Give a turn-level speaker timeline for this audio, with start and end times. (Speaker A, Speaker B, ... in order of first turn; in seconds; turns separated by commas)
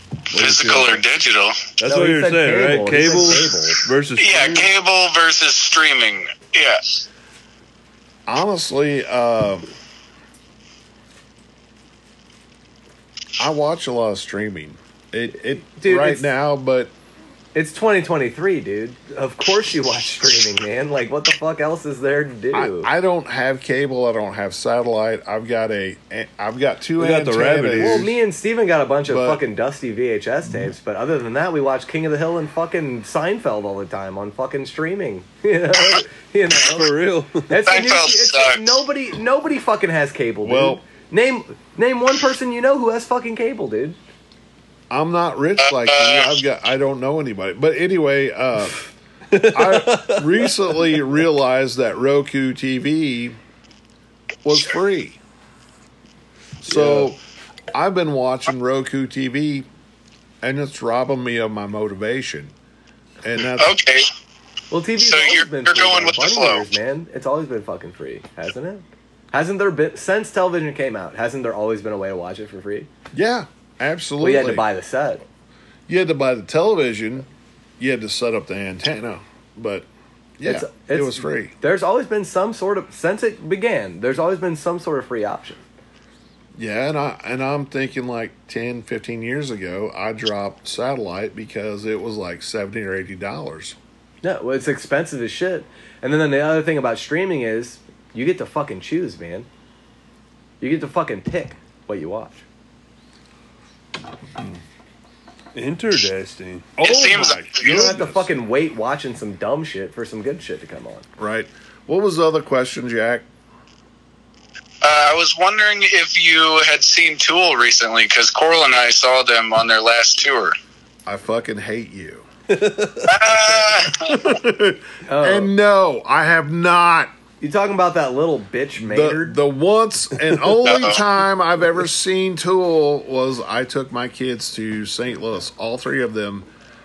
Speaker A: 0.3-1.0, Speaker B: 0.3-1.6, Speaker A: 1.8-4.7, Speaker C: 1.8-3.8, Speaker B: 4.2-7.0, Speaker D: 8.3-9.7, Speaker D: 13.4-16.9, Speaker C: 15.6-16.3, Speaker C: 17.5-22.9, Speaker D: 22.5-28.2, Speaker A: 27.0-28.1, Speaker C: 27.8-36.9, Speaker D: 29.1-29.4, Speaker A: 36.6-37.5, Speaker C: 37.5-44.0, Speaker B: 37.6-38.6, Speaker D: 40.4-40.8, Speaker D: 44.9-48.9, Speaker B: 45.6-46.3, Speaker A: 49.3-50.5, Speaker D: 49.5-53.4, Speaker D: 54.4-55.2, Speaker D: 56.6-57.2, Speaker C: 56.6-57.1, Speaker D: 57.7-59.7, Speaker D: 60.4-62.5, Speaker D: 63.2-63.7, Speaker B: 63.6-64.0, Speaker C: 64.7-72.9, Speaker B: 65.0-66.6, Speaker D: 73.1-74.7, Speaker C: 74.2-75.2, Speaker D: 75.9-77.3, Speaker D: 77.8-79.9, Speaker D: 80.4-81.5, Speaker C: 80.4-85.6, Speaker D: 86.5-93.8, Speaker C: 94.2-99.5, Speaker C: 100.6-102.4, Speaker A: 105.5-106.7, Speaker D: 106.8-108.3, Speaker B: 106.8-107.9, Speaker C: 107.4-111.0, Speaker D: 111.2-113.2, Speaker B: 114.8-120.5, Speaker D: 121.0-122.2, Speaker A: 122.5-123.1, Speaker B: 123.1-124.3, Speaker D: 123.9-127.1, Speaker C: 125.1-125.5, Speaker C: 127.4-129.4, Speaker D: 128.8-136.5, Speaker B: 130.6-131.0